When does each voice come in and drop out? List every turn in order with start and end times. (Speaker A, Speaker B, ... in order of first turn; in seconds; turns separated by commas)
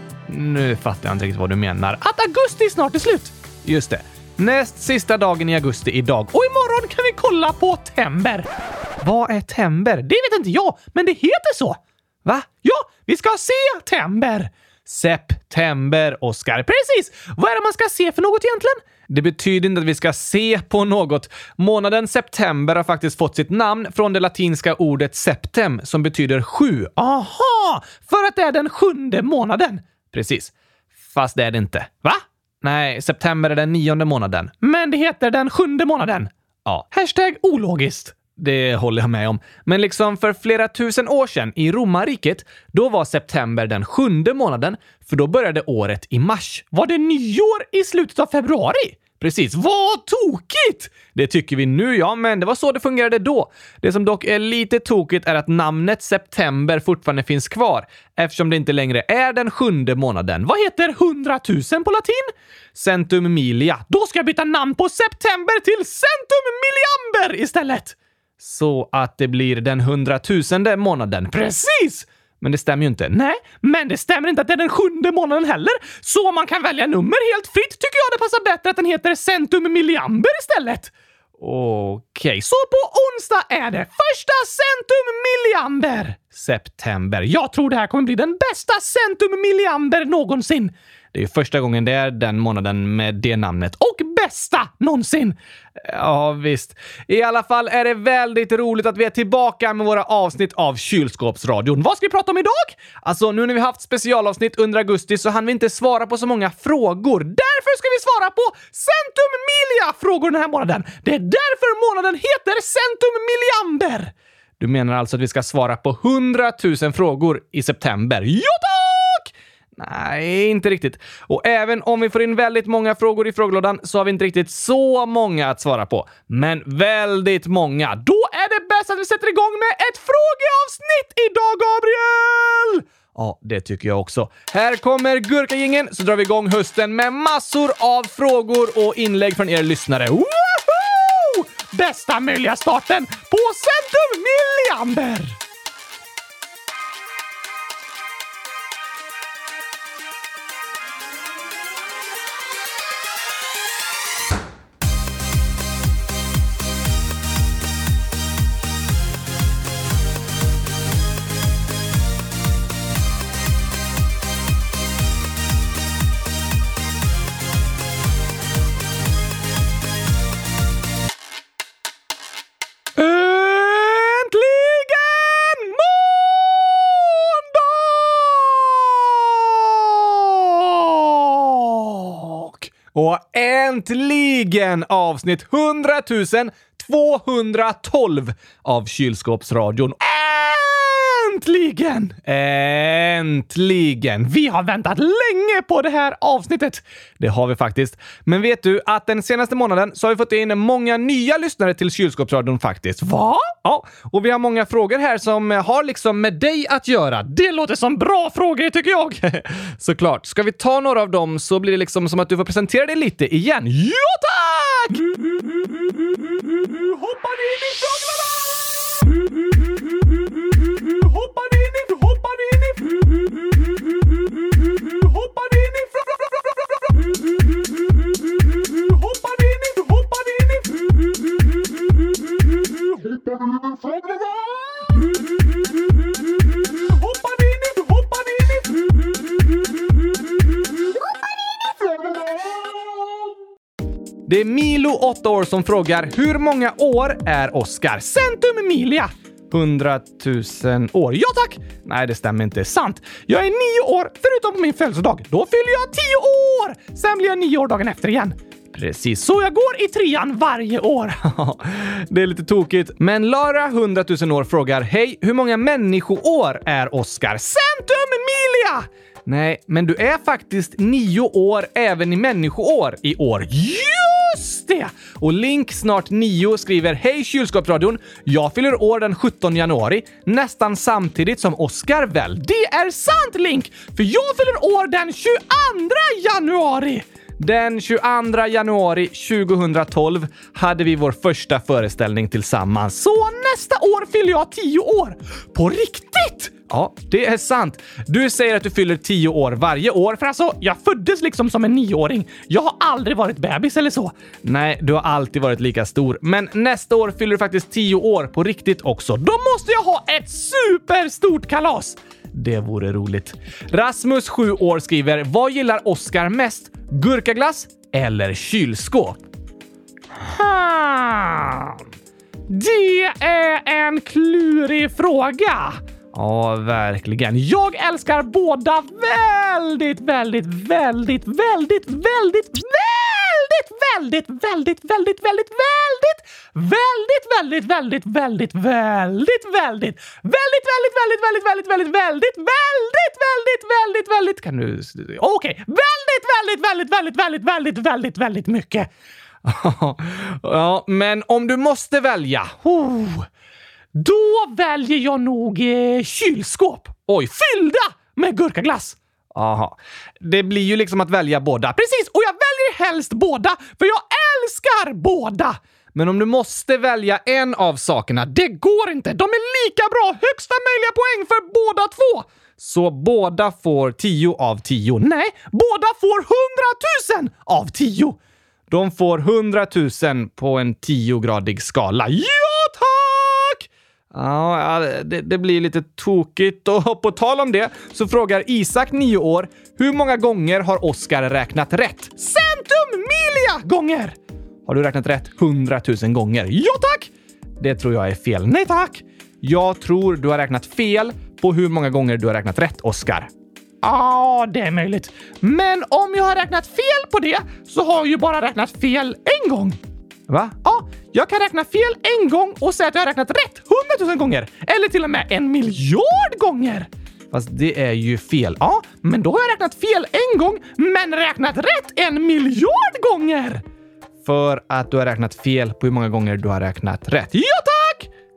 Speaker A: 0.3-8.5, Speaker A: 9.0-30.5, Speaker A: 31.1-145.4, Speaker A: 172.9-215.2, Speaker A: 216.6-218.6, Speaker A: 220.7-223.3, Speaker A: 224.7-226.5, Speaker A: 228.6-230.8, Speaker A: 236.8-238.8, Speaker A: 244.3-319.2, Speaker A: 320.1-321.8, Speaker A: 322.5-348.9, Speaker A: 349.4-353.3, Speaker A: 353.9-378.2, Speaker A: 378.7-403.3, Speaker A: 403.8-409.8, Speaker A: 410.3-423.6, Speaker A: 424.2-428.1